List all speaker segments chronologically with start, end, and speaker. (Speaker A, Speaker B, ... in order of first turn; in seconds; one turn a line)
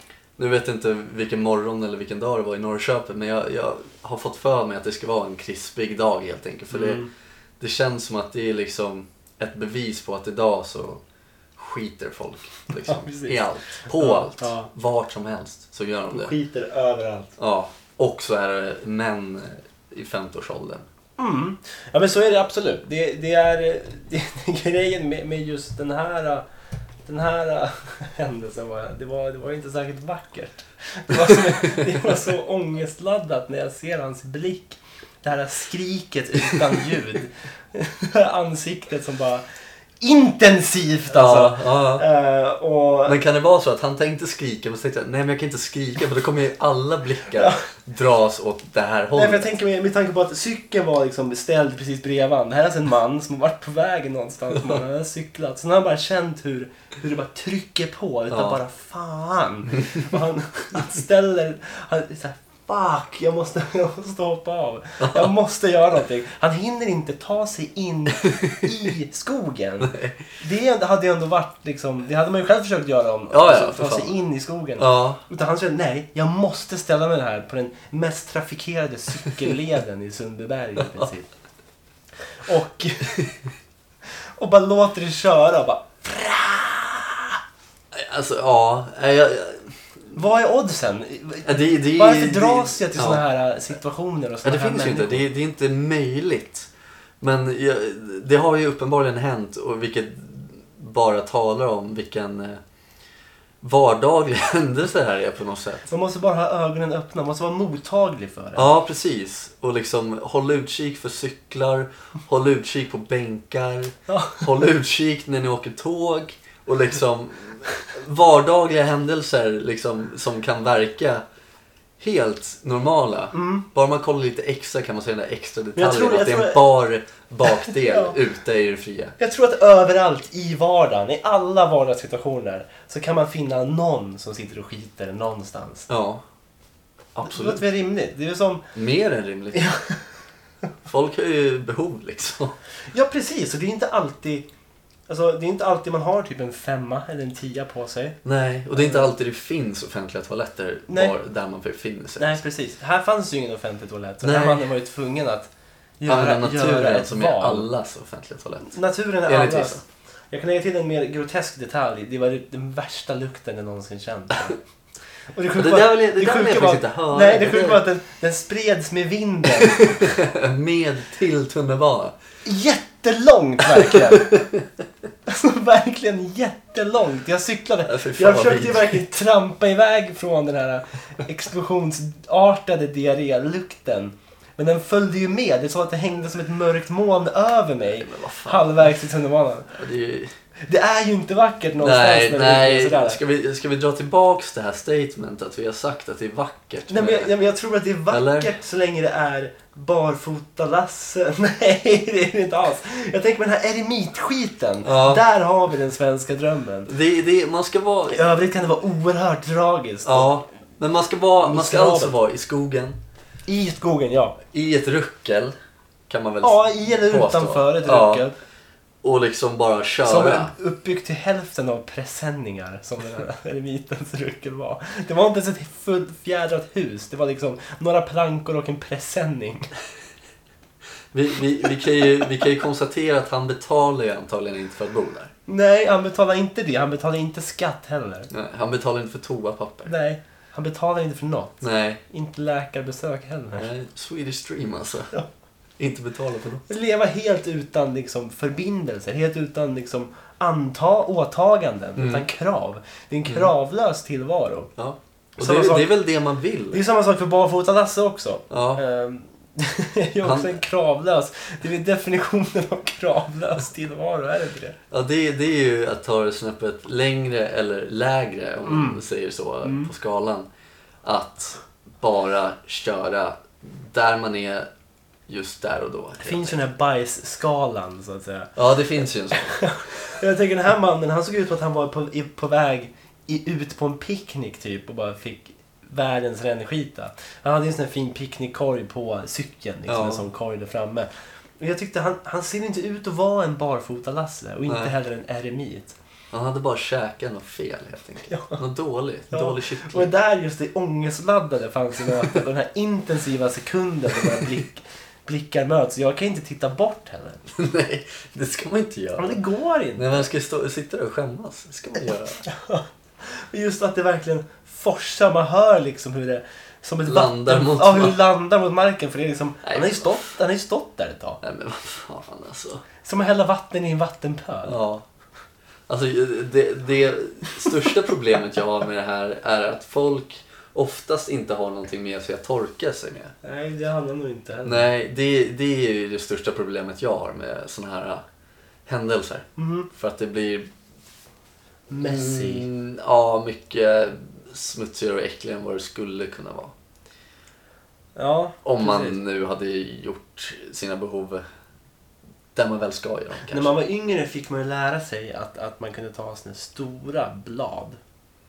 Speaker A: 0.4-7.0
Speaker B: 6.7-7.1
Speaker A: 7.6-11.0
Speaker A: 11.6-16.3
Speaker B: 12.8-14.7
Speaker B: 16.1-17.3
Speaker A: 17.4-20.9
Speaker B: 21.2-26.4
Speaker B: 27.1-39.4
Speaker A: 31.1-31.9
Speaker B: 40.0-43.2
Speaker A: 41.1-42.1
Speaker A: 43.0-49.5
Speaker B: 49.1-81.3
Speaker A: 58.3-58.6
Speaker A: 65.0-65.3
Speaker A: 68.2-68.7
Speaker A: 69.8-70.2
Speaker A: 73.3-74.2
Speaker A: 74.8-75.2
Speaker B: 82.4-83.2
Speaker B: 84.4-87.4
Speaker A: 87.9-89.7
Speaker B: 90.1-95.2
Speaker A: 91.4-93.2
Speaker A: 94.4-96.7
Speaker A: 97.2-102.6
Speaker A: 103.6-105.9
Speaker B: 105.9-108.7
Speaker A: 108.5-121.2
Speaker B: 114.1-114.5
Speaker A: 122.0-129.1
Speaker B: 123.3-123.6
Speaker B: 125.8-126.6
Speaker B: 127.6-128.2
Speaker B: 129.2-135.9
Speaker A: 135.9-136.2
Speaker A: 137.2-137.6
Speaker B: 137.2-138.6
Speaker A: 138.7-139.6
Speaker B: 139.5-140.0
Speaker A: 140.8-142.6
Speaker B: 142.9-144.5
Speaker B: 145.1-148.2
Speaker A: 148.2-152.4
Speaker B: 148.7-149.1
Speaker B: 150.9-151.1
Speaker B: 152.2-155.5
Speaker A: 154.2-154.7
Speaker B: 156.0-157.7
Speaker A: 156.1-158.7
Speaker B: 158.7-164.6
Speaker A: 159.2-159.8
Speaker B: 165.3-170.2
Speaker A: 165.5-167.8
Speaker A: 169.6-172.2
Speaker B: 172.4-174.5
Speaker A: 173.7-174.6
Speaker B: 175.3-189.7
Speaker A: 177.8-179.0
Speaker A: 187.9-188.9
Speaker A: 189.7-190.3
Speaker B: 190.7-193.2
Speaker A: 191.8-197.3
Speaker B: 196.9-206.9
Speaker A: 198.1-198.5
Speaker A: 204.8-205.2
Speaker A: 206.9-208.5
Speaker B: 208.1-210.4
Speaker A: 210.0-213.0
Speaker B: 211.4-212.1
Speaker B: 213.4-214.4
Speaker A: 214.5-215.5
Speaker A: 216.1-218.3
Speaker B: 216.4-218.3
Speaker A: 219.0-220.5
Speaker B: 220.0-229.7
Speaker A: 231.1-235.3
Speaker B: 235.5-238.3
Speaker A: 238.3-239.9
Speaker B: 239.8-243.7
Speaker A: 241.6-242.0
Speaker A: 243.6-245.2
Speaker A: 245.8-246.7
Speaker B: 246.7-254.7
Speaker A: 252.0-252.3
Speaker A: 254.8-256.8
Speaker B: 255.4-255.9
Speaker B: 256.7-264.8
Speaker A: 258.5-258.8
Speaker A: 260.2-260.5
Speaker A: 264.9-270.5
Speaker B: 268.6-269.0
Speaker B: 269.6-269.9
Speaker A: 271.0-274.7
Speaker A: 275.3-276.6
Speaker B: 276.2-278.5
Speaker A: 278.6-279.7
Speaker B: 279.3-291.1
Speaker A: 289.9-290.2
Speaker B: 291.6-295.9
Speaker A: 294.7-294.9
Speaker A: 296.3-300.1
Speaker B: 298.3-298.6
Speaker B: 299.3-307.4
Speaker A: 307.5-309.4
Speaker B: 309.2-310.2
Speaker A: 309.9-312.4
Speaker B: 312.4-321.4
Speaker A: 317.0-318.2
Speaker A: 319.6-320.2
Speaker A: 321.4-322.8
Speaker B: 323.0-324.8
Speaker A: 324.6-325.0
Speaker A: 325.9-333.3
Speaker B: 333.4-334.9
Speaker A: 334.6-338.2
Speaker A: 338.9-340.7
Speaker B: 339.6-339.9
Speaker B: 341.9-342.7
Speaker A: 341.9-346.7
Speaker B: 348.1-349.1
Speaker A: 348.6-351.4
Speaker A: 352.5-353.7
Speaker B: 353.5-358.0